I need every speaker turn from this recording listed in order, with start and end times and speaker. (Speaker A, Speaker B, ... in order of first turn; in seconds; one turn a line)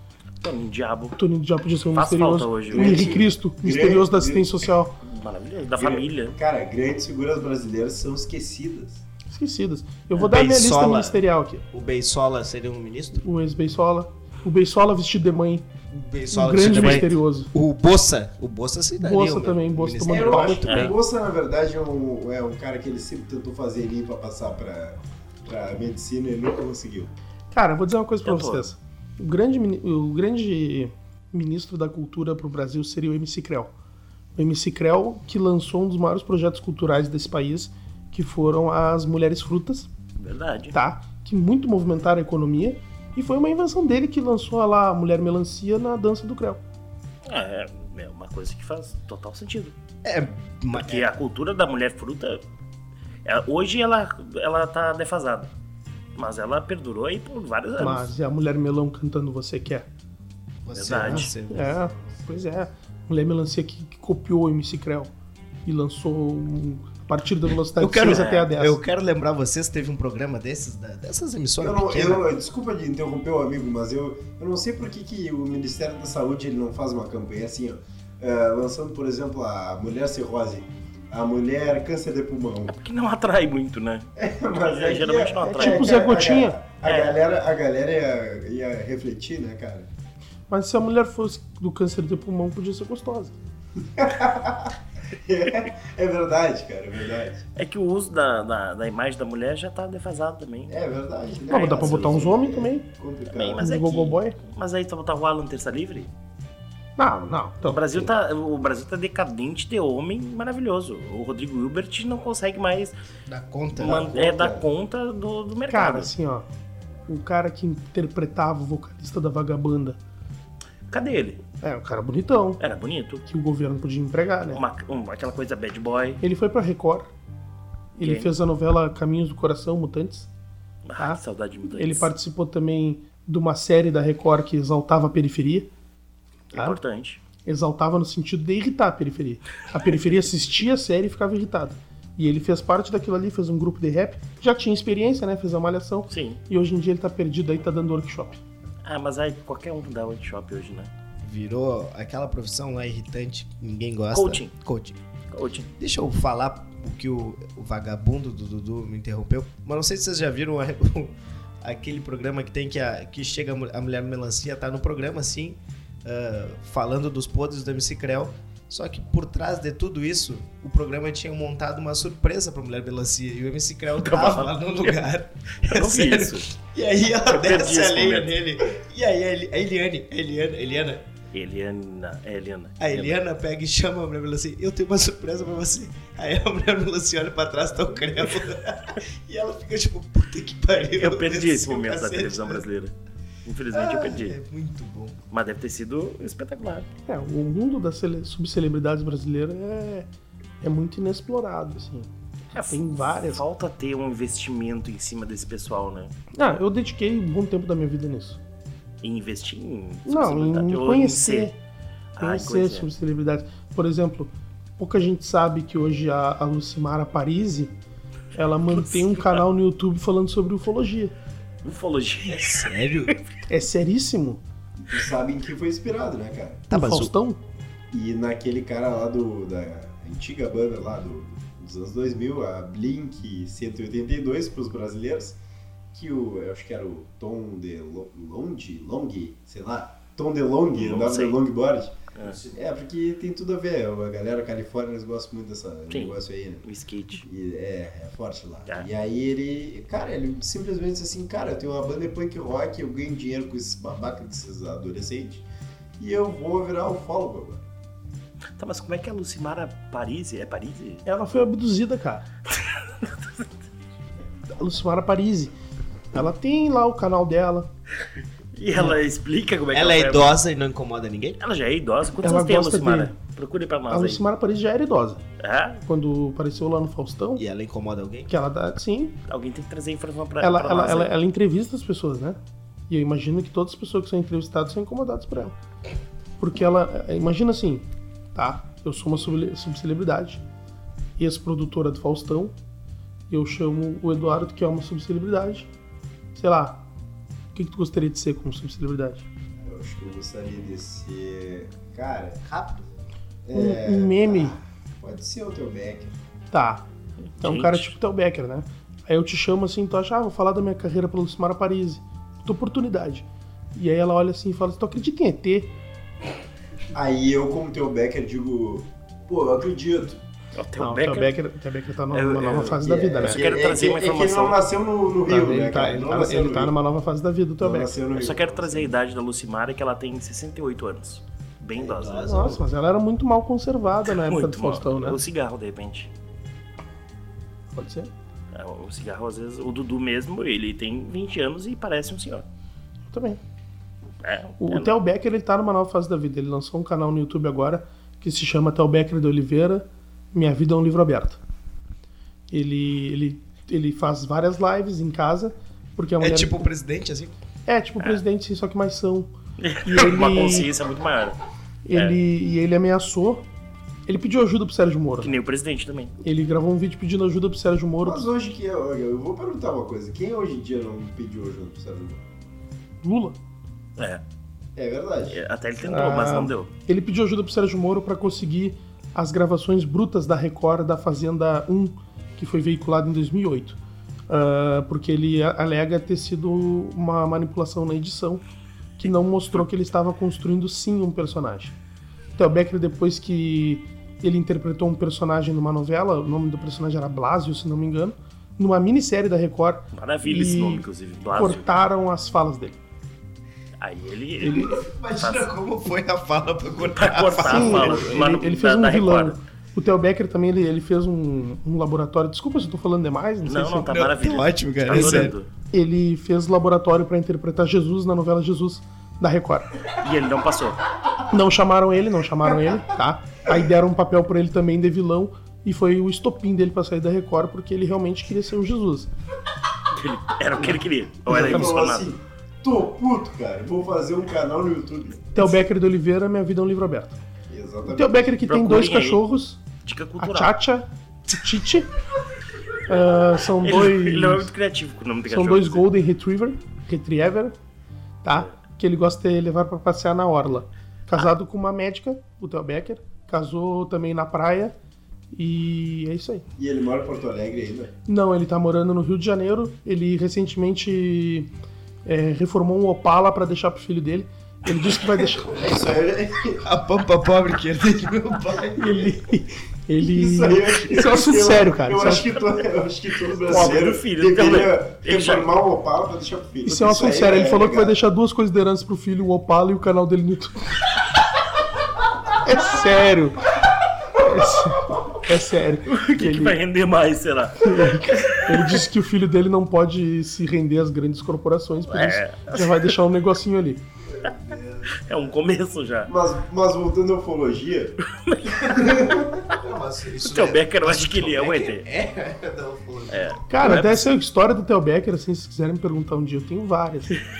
Speaker A: 0.4-1.2
Speaker B: 1.1-4.9
Speaker A: 1.9-3.1
Speaker C: 2.7-4.5
Speaker A: 5.0-6.3
Speaker C: 5.8-9.0
Speaker B: 9.3-11.6
Speaker D: 10.2-11.2
Speaker D: 11.7-13.2
Speaker B: 13.2-15.7
Speaker D: 15.9-20.9
Speaker B: 16.3-17.5
Speaker A: 16.6-17.0
Speaker B: 19.0-20.8
Speaker C: 20.0-27.1
Speaker A: 20.7-20.9
Speaker B: 27.5-33.7
Speaker A: 28.2-28.7
Speaker B: 34.4-39.9
Speaker A: 40.2-40.8
Speaker B: 40.7-46.6
Speaker A: 47.2-49.7
Speaker D: 50.0-51.1
Speaker A: 50.7-52.4
Speaker A: 53.2-55.5
Speaker A: 56.1-58.1
Speaker B: 57.8-59.9
Speaker D: 60.6-61.9
Speaker A: 60.7-61.3
Speaker B: 61.1-65.1
Speaker B: 65.7-68.8
Speaker D: 67.8-72.2
Speaker A: 68.0-68.5
Speaker C: 71.6-82.8
Speaker A: 82.8-84.1
Speaker C: 84.2-89.9
Speaker A: 84.6-85.9
Speaker B: 85.5-86.6
Speaker A: 86.8-87.1
Speaker B: 90.5-93.3
Speaker C: 93.8-97.4
Speaker A: 97.5-100.8
Speaker C: 100.7-103.6
Speaker A: 101.5-102.3
Speaker B: 101.5-102.8
Speaker A: 103.3-106.1
Speaker B: 103.6-104.4
Speaker B: 107.0-107.9
Speaker A: 107.6-112.9
Speaker D: 113.3-114.1
Speaker A: 113.8-116.1
Speaker C: 113.8-114.7
Speaker B: 115.7-116.5
Speaker B: 117.1-120.0
Speaker A: 120.9-121.4
Speaker B: 121.6-122.6
Speaker A: 122.6-123.2
Speaker B: 123.3-124.6
Speaker A: 124.5-126.2
Speaker B: 126.2-127.1
Speaker B: 128.0-130.3
Speaker A: 128.0-128.3
Speaker A: 130.8-132.1
Speaker B: 131.0-135.7
Speaker B: 136.5-136.8
Speaker A: 136.5-137.2
Speaker B: 137.4-148.4
Speaker A: 146.1-146.4
Speaker A: 148.8-150.9
Speaker D: 151.2-155.0
Speaker A: 154.1-154.5
Speaker A: 155.3-155.7
Speaker D: 155.8-181.0
Speaker A: 174.0-175.1
Speaker A: 175.6-176.5
Speaker A: 177.2-178.4
Speaker A: 181.3-183.2
Speaker D: 182.8-192.6
Speaker A: 190.9-192.9
Speaker A: 193.4-194.4
Speaker D: 193.7-195.2
Speaker A: 195.3-196.9
Speaker B: 197.1-200.1
Speaker B: 200.6-203.4
Speaker A: 202.5-206.1
Speaker B: 206.3-208.4
Speaker A: 209.0-211.5
Speaker B: 210.1-211.5
Speaker A: 212.2-212.9
Speaker B: 212.2-217.7
Speaker B: 218.3-221.1
Speaker A: 218.7-219.4
Speaker A: 221.6-223.2
Speaker D: 222.2-223.1
Speaker B: 223.5-224.4
Speaker C: 224.8-226.7
Speaker D: 226.7-227.1
Speaker B: 226.7-227.4
Speaker C: 227.9-235.4
Speaker C: 235.9-241.9
Speaker A: 240.7-241.4
Speaker D: 242.2-242.5
Speaker C: 242.5-255.4
Speaker A: 245.9-247.2
Speaker C: 256.0-257.6
Speaker A: 258.6-261.1
Speaker B: 261.1-262.2
Speaker A: 262.5-263.5
Speaker B: 264.5-265.5
Speaker B: 266.1-267.7
Speaker A: 268.5-270.3
Speaker D: 269.7-271.4
Speaker A: 271.4-274.2
Speaker B: 272.2-273.1
Speaker B: 273.9-275.2
Speaker A: 275.4-275.8
Speaker B: 275.9-277.4
Speaker D: 277.4-278.3
Speaker B: 278.3-279.2
Speaker A: 279.3-281.1
Speaker B: 280.4-282.4
Speaker B: 282.9-285.6
Speaker B: 286.4-290.4
Speaker B: 291.2-292.5
Speaker B: 293.3-295.7
Speaker B: 296.3-296.8
Speaker B: 297.5-299.2
Speaker C: 299.6-302.4
Speaker D: 302.4-302.9
Speaker C: 303.4-306.1
Speaker B: 303.5-304.6
Speaker B: 306.5-306.9
Speaker A: 307.2-307.9
Speaker B: 307.4-315.7
Speaker C: 316.9-320.2
Speaker A: 320.5-321.4
Speaker B: 320.8-323.4
Speaker A: 322.1-324.6
Speaker C: 322.8-326.7
Speaker B: 325.3-327.9
Speaker C: 327.6-328.9
Speaker A: 328.1-332.6
Speaker D: 331.7-332.7
Speaker B: 332.3-335.2
Speaker A: 334.1-336.1
Speaker B: 337.7-338.1
Speaker A: 338.5-342.4
Speaker B: 343.1-343.4
Speaker A: 344.2-344.9
Speaker B: 344.6-351.4
Speaker B: 352.5-356.7
Speaker D: 356.2-357.3
Speaker B: 357.7-359.3
Speaker A: 359.6-361.4
Speaker B: 359.8-360.7
Speaker B: 361.8-363.4
Speaker A: 361.9-362.2
Speaker B: 364.1-365.3
Speaker A: 365.2-366.1
Speaker B: 366.2-368.2
Speaker C: 368.0-372.2
Speaker B: 373.0-373.4
Speaker C: 374.8-375.4
Speaker A: 375.3-376.7
Speaker B: 375.8-383.8
Speaker B: 384.3-388.4
Speaker B: 389.0-391.7
Speaker B: 392.4-402.8
Speaker A: 399.9-401.6
Speaker A: 403.8-405.5
Speaker D: 404.4-408.2
Speaker A: 406.8-409.4
Speaker B: 407.4-413.9
Speaker A: 413.4-415.5
Speaker D: 413.8-415.3
Speaker B: 414.9-419.7
Speaker A: 419.9-420.8
Speaker B: 421.3-429.1
Speaker A: 429.9-432.1
Speaker B: 431.3-431.7
Speaker C: 431.3-435.3
Speaker B: 435.3-437.2
Speaker C: 437.5-438.3
Speaker B: 437.9-439.6
Speaker A: 438.4-439.2
Speaker A: 439.8-440.5
Speaker B: 440.2-441.9
Speaker B: 442.8-444.5
Speaker A: 443.6-445.9
Speaker B: 445.3-447.5
Speaker B: 448.2-454.7
Speaker B: 455.3-456.4
Speaker C: 456.6-457.9
Speaker B: 458.1-461.5
Speaker B: 462.0-465.6
Speaker C: 465.4-466.6
Speaker D: 466.6-469.2
Speaker B: 468.8-472.3
Speaker C: 470.0-478.0
Speaker A: 472.2-472.4
Speaker A: 473.3-475.5
Speaker B: 476.6-480.9
Speaker B: 482.4-483.5
Speaker B: 484.1-486.6
Speaker A: 485.9-488.9
Speaker B: 487.6-493.8
Speaker A: 491.8-493.0
Speaker D: 494.2-495.0
Speaker A: 494.9-496.1
Speaker C: 496.1-498.0
Speaker A: 498.0-499.0
Speaker D: 498.5-503.3
Speaker A: 500.2-501.9
Speaker A: 503.1-504.1
Speaker B: 503.5-507.2